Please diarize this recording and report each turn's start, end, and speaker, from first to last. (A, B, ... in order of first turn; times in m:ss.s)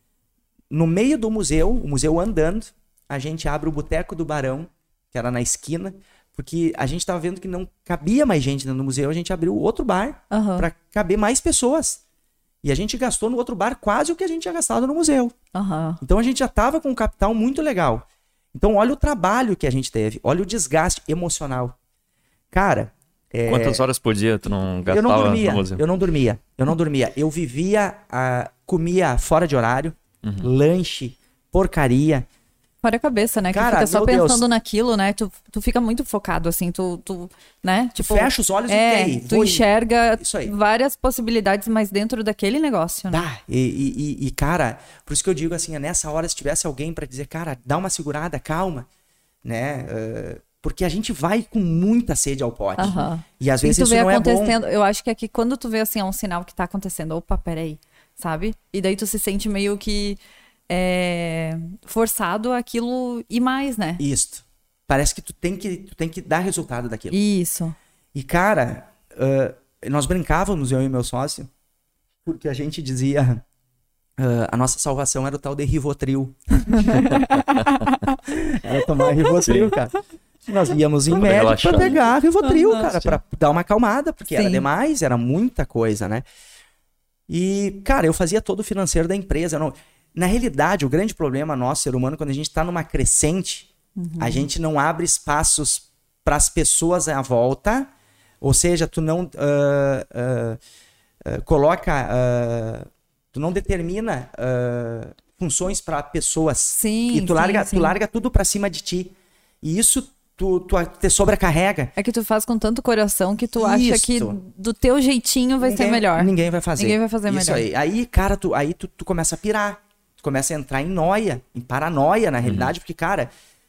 0:00.7-0:12.0 A
0:10.3-0:10.7 B
0:12.6-0:15.3 A
0:15.5-0:16.0 B
0:16.0-0:21.8 A
0:22.5-0:23.8 A
0:23.5-0:25.8 C
0:24.8-0:32.3 A
0:30.2-0:30.5 C
0:32.8-0:43.2 B
0:33.5-0:34.4 A
0:38.0-0:40.5 A
0:43.1-0:48.9 A
0:49.4-0:54.6 A
0:52.8-1:04.0 B
1:04.0-1:07.2 A
1:07.1-1:07.7 B
1:08.1-1:11.5 A
1:12.2-1:13.4 A
1:14.2-1:17.2 A
1:16.7-1:18.2 B
1:18.3-1:19.9 A
1:19.4-1:19.7 C
1:20.5-1:26.2 A
1:21.1-1:22.0 C
1:22.4-1:22.8 B
1:22.8-1:23.2 C
1:24.3-1:24.6 B
1:27.3-1:37.9 A
1:34.0-1:34.5 B
1:38.4-1:40.6 A
1:41.2-1:51.9 A
1:46.7-1:47.9 B
1:52.0-1:57.6 B
1:53.5-1:54.4 A
1:55.6-2:03.3 A
2:02.4-2:02.7 C